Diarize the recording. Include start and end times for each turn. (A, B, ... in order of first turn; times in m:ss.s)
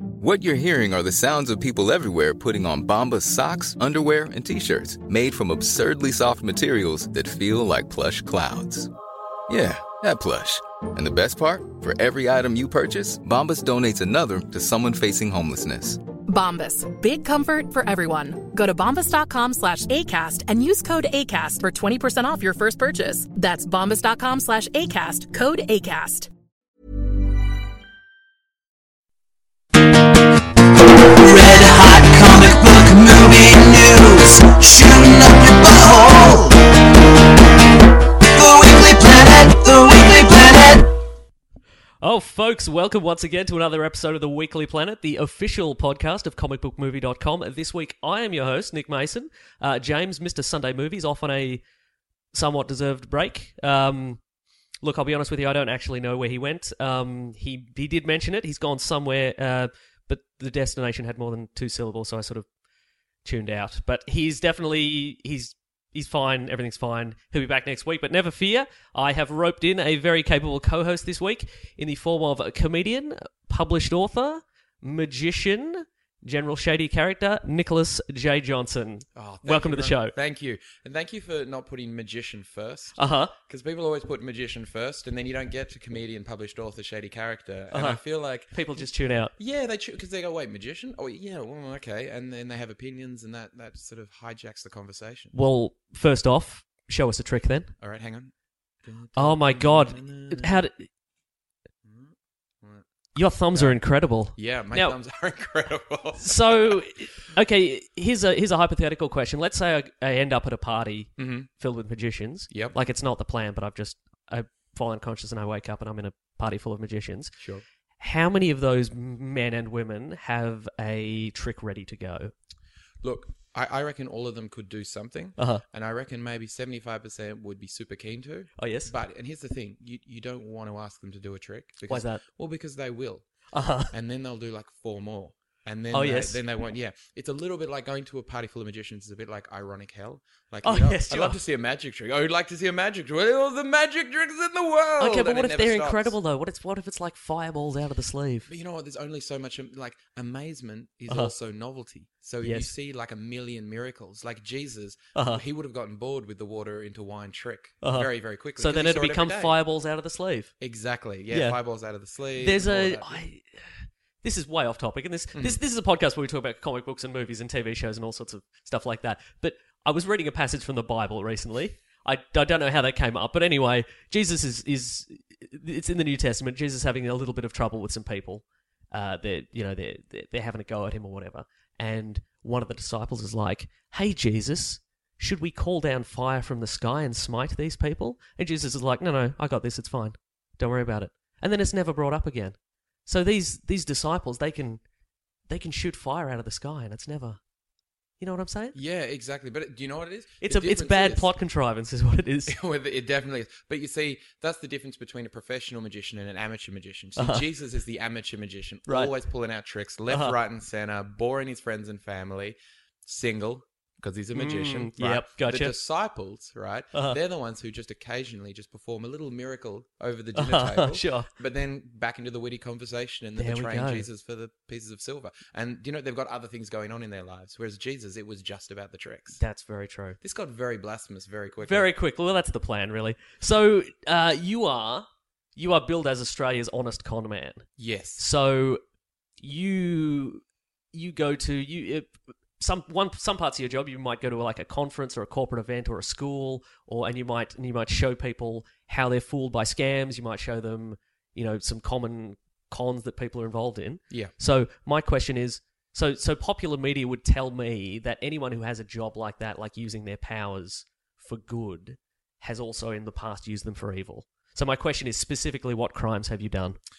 0:00.2-0:08.9 A
0:09.5-0:16.0 A
0:16.3-0:26.3 B
0:31.2-0:36.6 C
0:38.2-0:40.9 C
0:42.0-0:51.6 D
0:52.3-0:54.2 D
0:54.8-1:02.4 D
1:03.2-1:20.1 D
1:19.2-1:28.6 E
1:23.0-1:23.3 D
1:27.7-1:28.0 D
1:28.5-1:29.3 D
1:29.4-1:35.3 E
1:35.3-1:37.7 D
1:37.8-1:38.3 E
1:38.8-1:40.6 E
1:39.2-1:40.9 D
1:41.8-1:42.9 E
1:43.1-1:44.9 D
1:43.5-1:43.8 E
1:44.3-1:46.8 E
1:46.2-1:57.3 D
1:51.2-1:51.5 E
1:52.5-1:52.8 E
1:58.0-2:02.3 D
2:03.0-2:13.3 E
2:05.4-2:05.6 D
2:08.6-2:08.9 D
2:11.9-2:12.2 D
2:13.5-2:13.9 D
2:13.9-2:26.2 E
2:15.9-2:16.4 D
2:20.6-2:21.4 D
2:25.0-2:28.5 D
2:28.5-2:39.6 E
2:32.4-2:32.7 D
2:35.2-2:35.4 D
2:37.8-2:40.5 D
2:40.6-2:43.2 E
2:41.3-2:41.6 D
2:42.4-3:14.8 D
2:45.3-2:45.6 E
3:15.5-3:17.4 D
3:18.2-3:18.8 D
3:18.7-3:21.3 E
3:20.4-3:22.6 D
3:22.5-3:49.4 E
3:27.2-3:27.4 D
3:28.9-3:29.1 D
3:30.1-3:30.4 D
3:34.3-3:35.7 D
3:40.4-3:41.3 D
3:43.4-3:44.1 D
3:49.4-3:50.2 D
3:50.2-3:51.9 E
3:51.6-3:58.8 D
3:57.8-3:58.2 E
3:59.4-4:00.4 D
4:00.9-4:26.8 D